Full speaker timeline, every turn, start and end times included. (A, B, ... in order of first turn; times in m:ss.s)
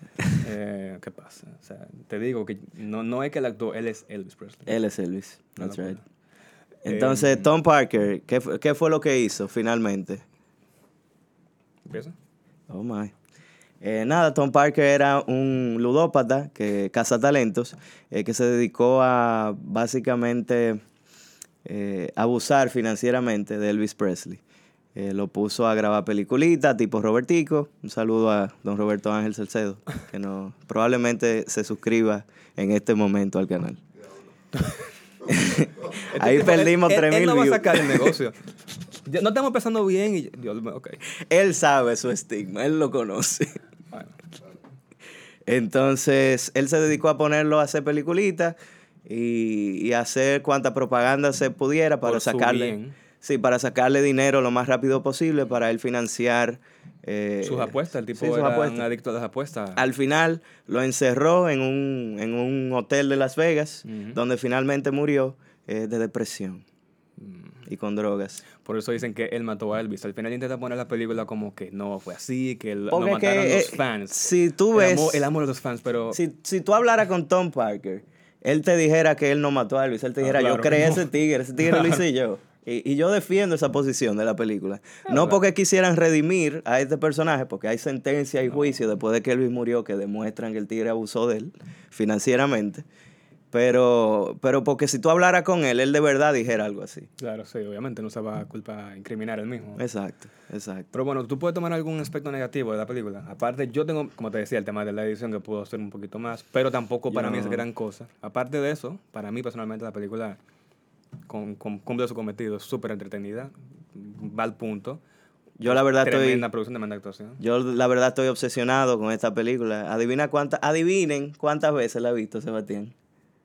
0:00.3-0:04.8 A
0:04.7-0:06.0 B
0:05.6-0:06.0 A
0:06.8-0:07.5 A
0:06.8-0:10.2 B
0:11.8-0:12.1 A
0:12.7-0:13.1 B
0:13.8-0:20.8 B
0:21.6-0:24.4 B
0:25.0-0:33.8 B
0:35.3-0:38.2 B
0:35.9-0:41.0 A
0:41.2-0:43.5 B
0:43.9-0:44.2 A
0:45.5-0:58.9 B
0:52.0-0:52.9 A
0:57.4-0:59.9 A
0:59.8-1:06.6 B
1:03.8-1:04.2 A
1:07.2-1:07.6 A
1:07.7-1:08.4 B
1:08.6-1:16.2 A
1:12.9-1:15.3 B
1:16.1-1:32.8 B
1:20.2-1:21.1 A
1:21.6-1:22.0 A
1:25.1-1:25.4 A
1:33.5-1:37.1 B
1:37.2-1:39.8 A
1:39.8-1:40.9 B
1:40.9-1:50.4 A
1:47.1-1:47.7 B
1:51.3-1:55.0 A
1:55.6-1:56.4 B
1:55.6-1:57.4 A
1:57.4-2:02.9 B